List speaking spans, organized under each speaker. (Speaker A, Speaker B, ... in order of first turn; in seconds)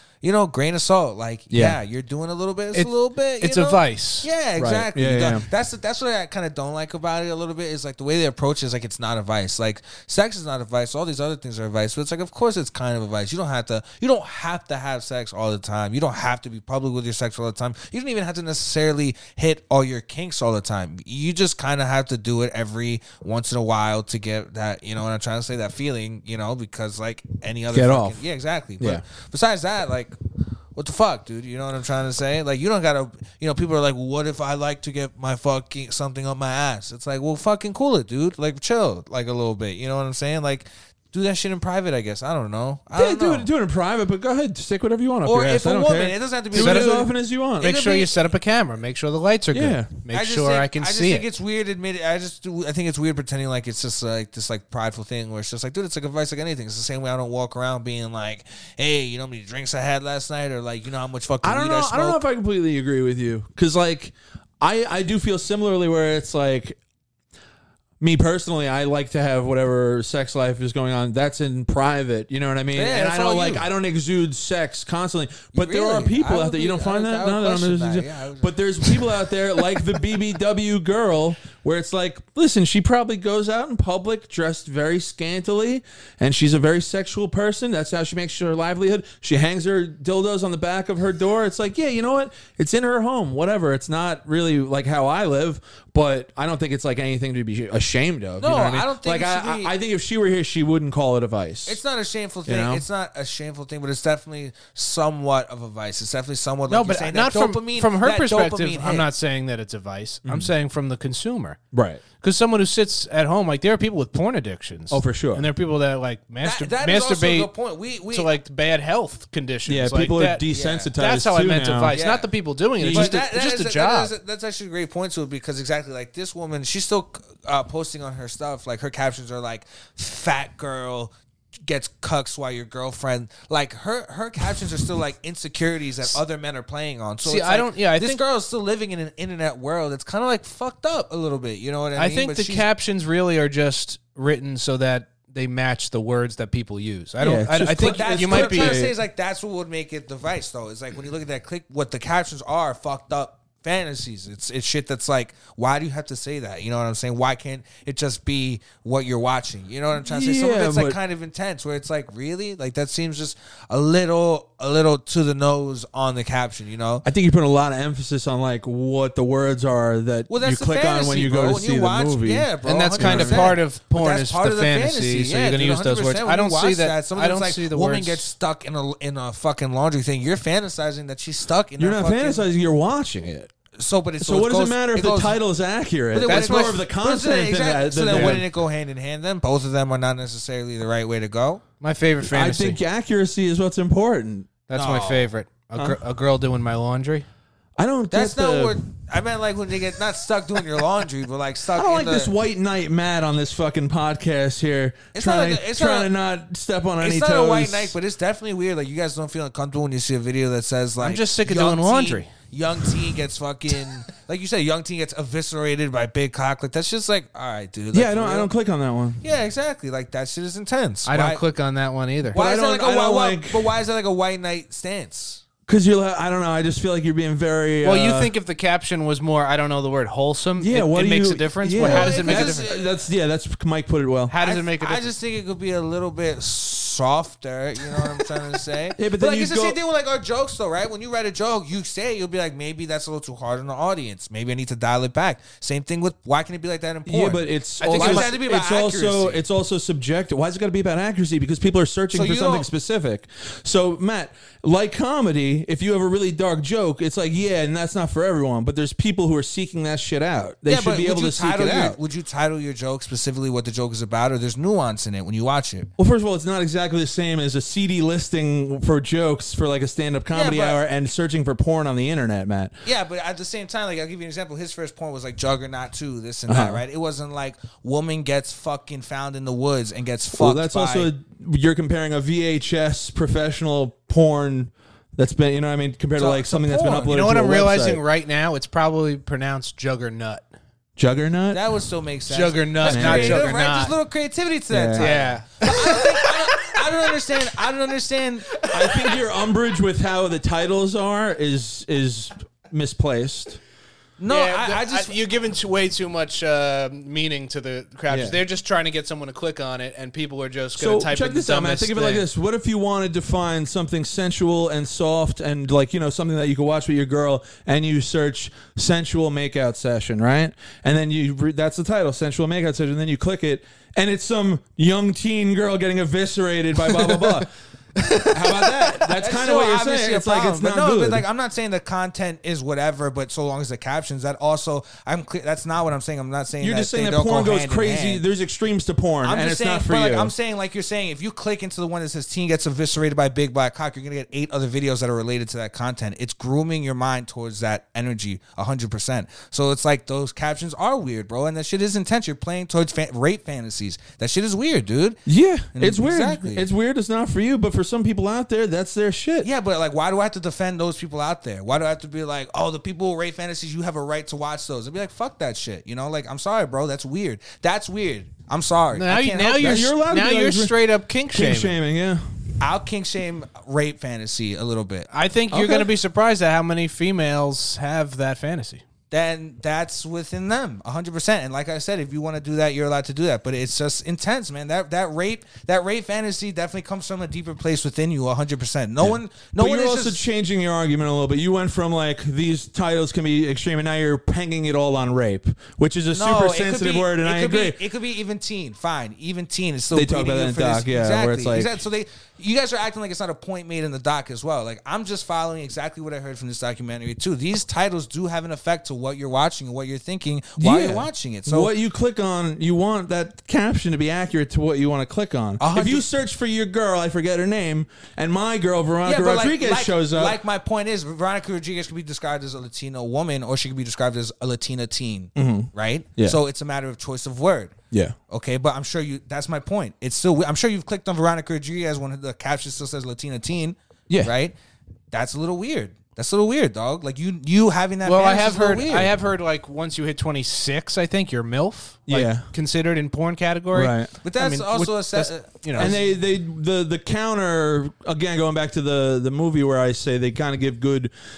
Speaker A: 0.2-30.2, 30.8-43.5, 45.2-47.1, 47.6-48.2, 50.1-62.2, 72.7-73.7, 75.5-79.3, 98.4-99.7, 101.7-109.1, 116.4-118.3, 120.5-120.9, 121.9-122.3, 122.9-131.1, 131.7-142.7, 147.8-167.1, 170.3-182.4, 183.8-185.4, 186.1-191.6, 194.7-195.3, 198.1-202.3, 205.1-206.1, 207.0-218.5, 219.2-221.4, 222.3-225.4, 231.8-232.8, 234.4-249.4, 252.1-252.7, 260.7-265.9, 270.3-270.8, 272.8-281.1, 286.2-287.2, 291.5-298.6, 304.2-305.2, 329.2-338.2, 339.2-355.2, 355.7-356.7, 359.4-369.8, 372.6-375.1, 379.1-390.2, 396.1-411.7, 415.6-416.1, 419.0-427.8, 428.3-434.6, 435.1-439.1, 444.2-446.1
Speaker B: 1.5-1.8, 4.6-5.5, 27.7-28.2, 42.9-47.8, 49.5-49.9, 61.4-66.8, 68.0-101.8, 102.5-102.8, 110.2-110.5, 111.7-112.0, 114.9-115.5, 119.7-122.0, 122.8-123.2, 147.2-148.9, 160.0-161.0, 167.1-173.6, 181.8-183.5, 184.2-188.4, 192.2-194.5, 197.8-198.8, 201.8-207.9, 217.9-219.2, 222.3-223.7, 225.7-228.3, 230.6-234.3, 239.0-239.8, 247.1-262.0, 266.0-272.7, 276.5-276.8, 280.4-288.0, 291.0-291.6, 292.8-293.5, 294.7-295.1, 298.7-303.6, 308.1-308.4, 310.8-327.5, 328.2-331.2, 336.6-340.3, 355.3-359.5, 369.6-370.8, 371.3-372.2, 375.5-375.9, 389.0-397.8, 399.9-401.7, 410.6-420.4, 425.4-426.4, 427.9-428.2, 442.1-442.5, 443.7-444.1, 445.8-451.1
Speaker C: 2.7-4.3, 46.5-51.3, 106.7-111.6, 112.2-117.5, 118.1-124.1, 137.2-138.2, 142.0-148.8, 172.7-178.2, 186.2-186.8, 188.1-188.4, 191.8-192.8, 194.7-197.3, 211.0-212.3, 221.1-222.4, 227.8-232.7, 234.3-235.1, 247.8-248.3, 287.1-290.4, 292.3-293.9, 295.0-297.6, 298.5-299.2, 304.3-312.2, 326.9-327.4, 328.0-328.9, 368.9-371.8, 375.1-378.8, 438.1-445.9